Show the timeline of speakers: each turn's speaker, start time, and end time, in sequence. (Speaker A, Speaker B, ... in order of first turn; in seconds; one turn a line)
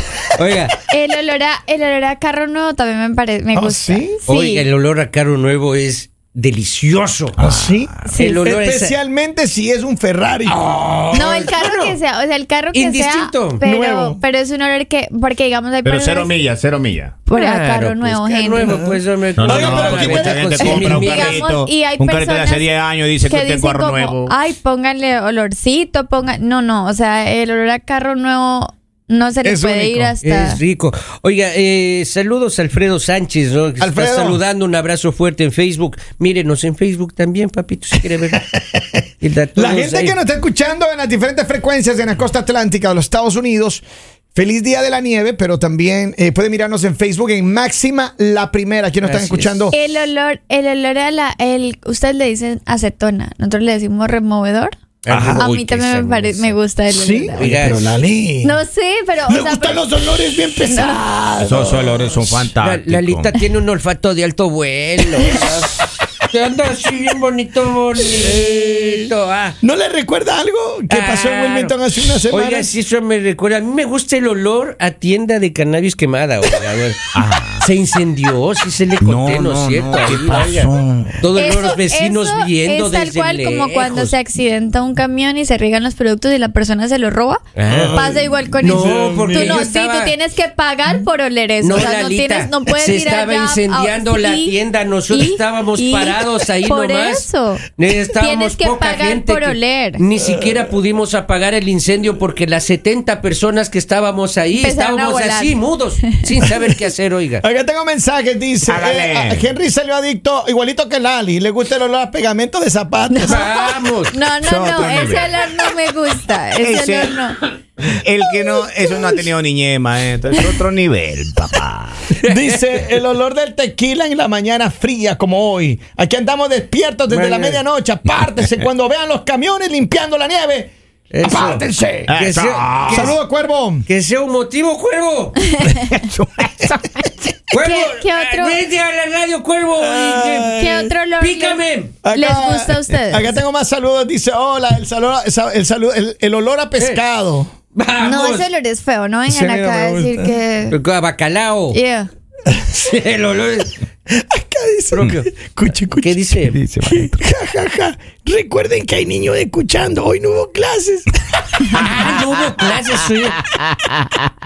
Speaker A: 0.3-0.8
Speaker B: 0.9-4.7
Speaker C: 3.5-4.2
Speaker A: 4.3-7.3
Speaker D: 7.4-8.1
Speaker C: 7.4-10.6
Speaker B: 8.1-8.4
Speaker A: 8.1-9.0
Speaker A: 10.5-12.0
Speaker B: 11.1-16.3
Speaker A: 12.7-13.6
Speaker C: 13.6-14.2
Speaker D: 15.8-17.1
Speaker B: 17.2-18.7
Speaker A: 17.3-21.5
Speaker C: 18.6-20.8
Speaker D: 19.4-24.4
Speaker B: 20.6-22.7
Speaker B: 23.2-30.6
Speaker C: 29.4-30.1
Speaker A: 30.2-38.5
Speaker C: 33.8-34.4
Speaker C: 38.4-39.0
Speaker A: 39.2-40.2
Speaker C: 39.5-43.8
Speaker C: 44.3-49.8
Speaker A: 49.0-49.6
Speaker B: 49.7-54.8
Speaker A: 55.0-56.6
Speaker C: 55.1-55.4
Speaker B: 55.3-57.5
Speaker C: 56.9-58.6
Speaker A: 57.4-57.9
Speaker B: 58.4-59.9
Speaker C: 59.3-62.5
Speaker B: 60.6-61.0
Speaker D: 61.4-63.3
Speaker A: 62.6-69.6
Speaker C: 68.2-69.1
Speaker C: 69.6-72.7
Speaker A: 70.9-84.1
Speaker D: 77.1-77.7
Speaker D: 79.0-81.3
Speaker B: 81.3-100.0
Speaker A: 87.5-90.2
Speaker C: 87.7-89.7
Speaker A: 91.6-107.4
Speaker B: 104.6-106.2
Speaker C: 107.4-113.6
Speaker D: 108.6-109.5
Speaker B: 113.1-117.4
Speaker A: 113.2-114.1
Speaker D: 114.4-115.5
Speaker D: 116.6-117.1
Speaker D: 117.8-122.1
Speaker C: 122.2-132.1
Speaker A: 127.1-127.6
Speaker A: 131.1-133.2
Speaker D: 132.1-133.2
Speaker C: 132.8-133.8
Speaker A: 133.8-135.4
Speaker D: 135.6-137.1
Speaker B: 137.5-138.6
Speaker A: 137.5-140.6
Speaker C: 139.8-140.9
Speaker B: 140.5-143.4
Speaker A: 141.2-142.0
Speaker C: 142.0-147.5
Speaker A: 146.8-147.0
Speaker A: 147.7-148.5
Speaker B: 148.0-150.8
Speaker C: 149.3-150.3
Speaker A: 150.7-151.8
Speaker B: 151.7-152.1
Speaker A: 152.7-153.7
Speaker C: 154.1-156.2
Speaker A: 154.9-155.3
Speaker A: 156.0-156.6
Speaker D: 156.5-157.2
Speaker C: 156.8-161.1
Speaker A: 161.7-163.4